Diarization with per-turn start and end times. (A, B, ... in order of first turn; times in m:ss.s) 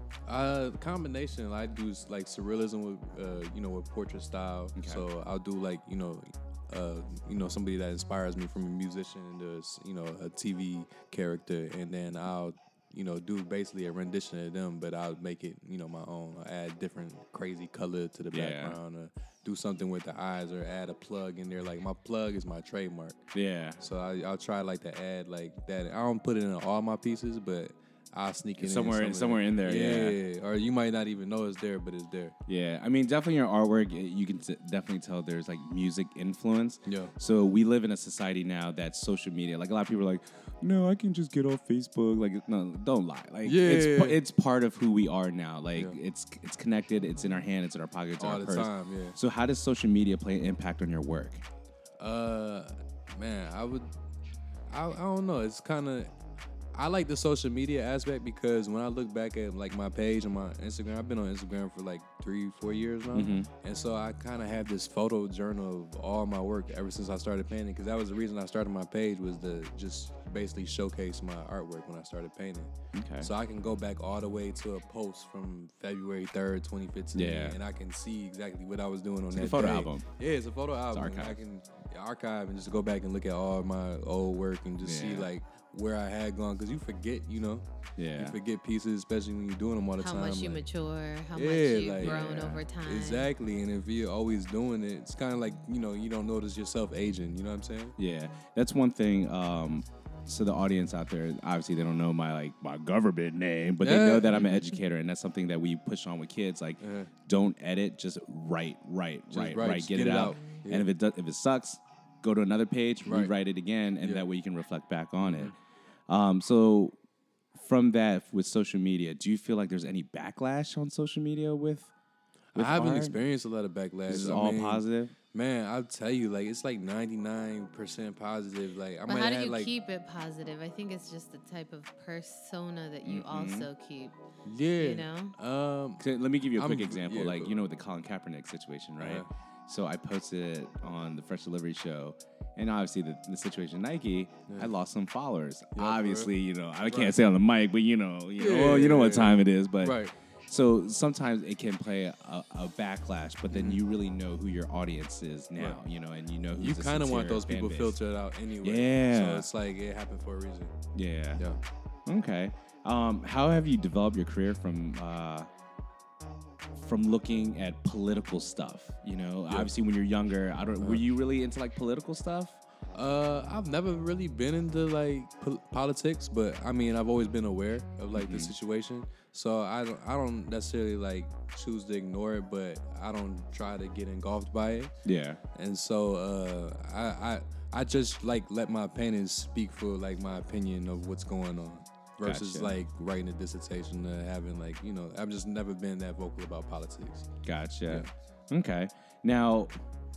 0:00.3-0:23.2 A
0:04.8-0:05.0 B
0:18.3-0:18.8 B
0:23.3-0:23.8 B
0:23.8-0:32.3 A
0:28.6-0:30.2 B
0:32.4-0:51.4 B
0:36.8-0:37.1 A
0:43.4-0:44.2 A
0:48.2-0:49.2 A
0:52.0-0:53.9 A
0:54.7-0:56.1 A
0:56.7-1:30.6 A
1:03.1-1:03.5 B
1:12.9-1:13.3 B
1:17.1-1:17.6 B
1:19.3-1:20.0 B
1:20.9-1:21.4 B
1:24.8-1:25.3 B
1:28.0-1:28.4 B
1:30.0-1:33.3 C
1:31.3-1:32.3 A
1:32.0-1:32.6 B
1:32.8-1:38.0 A
1:38.0-1:55.5 B
1:43.8-1:44.4 A
1:46.8-1:47.1 A
1:49.3-1:50.9 A
1:53.0-1:53.3 A
1:54.0-1:54.2 A
1:55.2-1:55.5 A
1:56.1-1:57.0 B
1:57.5-2:01.9 B
2:02.5-2:09.7 A
2:02.5-2:03.2 B
2:04.1-2:05.1 B
2:09.1-2:14.2 C
2:13.0-2:13.7 B
2:14.4-2:16.0 A
2:14.8-2:15.3 C
2:16.0-2:38.0 B
2:16.5-2:17.5 A
2:19.0-2:19.3 A
2:25.7-2:26.3 A
2:26.9-2:27.1 A
2:28.4-2:30.1 A
2:33.5-2:33.8 A
2:36.5-2:40.7 A
2:38.6-2:39.5 B
2:40.9-2:41.4 B
2:42.0-2:45.5 B
2:46.8-2:52.6 B
2:52.9-3:04.9 A
2:58.1-2:58.5 B
3:05.0-3:05.4 B
3:05.5-3:17.3 A
3:12.2-3:12.8 B
3:17.4-3:19.7 B